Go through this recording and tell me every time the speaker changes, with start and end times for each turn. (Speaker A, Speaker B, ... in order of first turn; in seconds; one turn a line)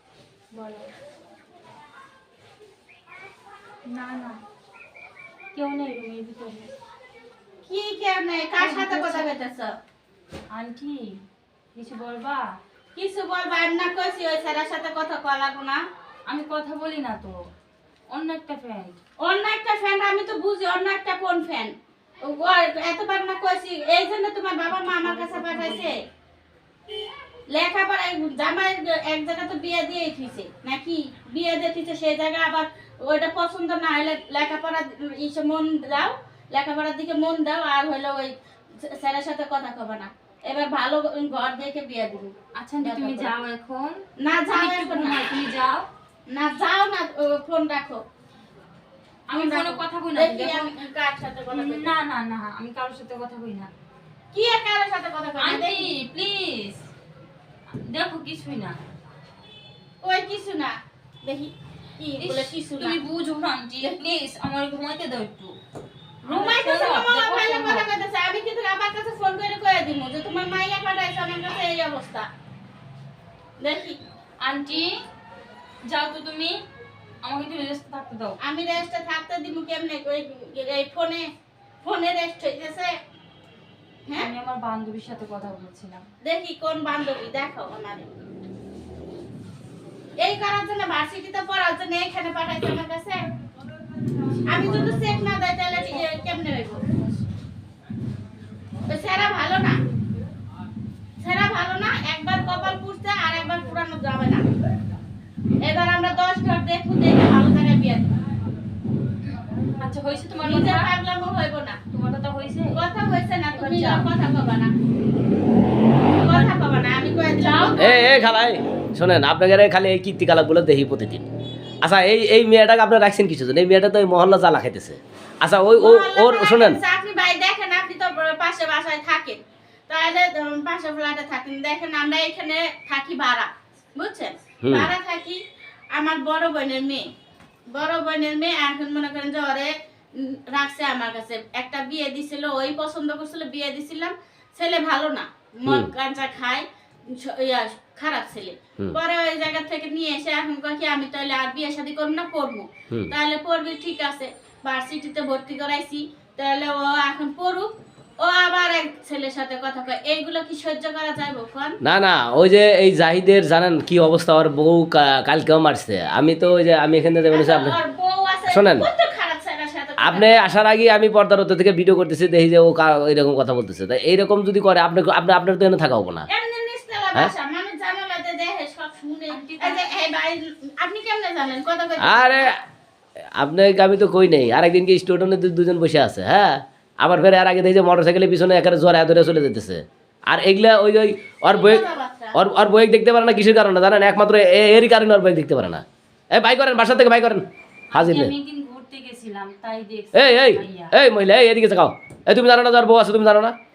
Speaker A: 0.5-0.9
Speaker A: 3.9-4.4
Speaker A: 5.5-6.7
Speaker B: 7.7-9.7
Speaker A: 8.6-9.4
Speaker A: 10.5-11.2
Speaker A: 11.8-12.4
Speaker B: 12.9-15.8
Speaker A: 16.3-17.4
Speaker A: 18.1-19.0
Speaker B: 19.2-21.7
Speaker B: 22.2-26.0
Speaker A: 24.7-25.9
Speaker B: 27.5-43.3
Speaker A: 42.5-45.9
Speaker B: 44.2-45.2
Speaker B: 46.3-48.0
Speaker A: 49.3-50.7
Speaker B: 49.3-51.9
Speaker A: 51.5-53.7
Speaker B: 54.3-55.9
Speaker A: 55.4-56.8
Speaker A: 57.8-58.8
Speaker B: 60.0-63.0
Speaker A: 62.2-65.5
Speaker B: 66.2-72.3
Speaker A: 66.3-67.9
Speaker B: 73.6-74.0
Speaker A: 74.4-74.9
Speaker A: 75.9-76.5
Speaker A: 77.2-78.3
Speaker B: 78.4-81.2
Speaker B: 81.8-82.9
Speaker A: 84.2-86.0
Speaker B: 86.2-88.1
Speaker B: 90.2-93.2
Speaker A: 94.5-96.0
Speaker B: 94.5-96.8
Speaker B: 98.9-99.8
Speaker B: 101.2-104.4
Speaker B: 105.6-108.1
Speaker A: 109.8-110.9
Speaker B: 110.4-111.8
Speaker A: 111.9-112.8
Speaker B: 112.8-114.7
Speaker A: 113.5-114.1
Speaker B: 116.2-118.2
Speaker A: 116.2-116.5
Speaker A: 117.5-117.8
Speaker C: 117.8-121.3
Speaker C: 121.8-126.8
Speaker B: 125.8-135.4
Speaker C: 134.6-134.9
Speaker B: 135.9-137.1
Speaker B: 137.7-157.7
Speaker B: 158.2-161.8
Speaker C: 161.8-167.8
Speaker B: 167.3-170.5
Speaker C: 168.5-168.9
Speaker C: 170.0-176.3
Speaker B: 176.3-182.5
Speaker A: 179.3-179.8
Speaker C: 182.0-182.6
Speaker C: 183.4-198.3
Speaker B: 191.5-192.4
Speaker A: 197.9-200.9
Speaker C: 200.1-203.6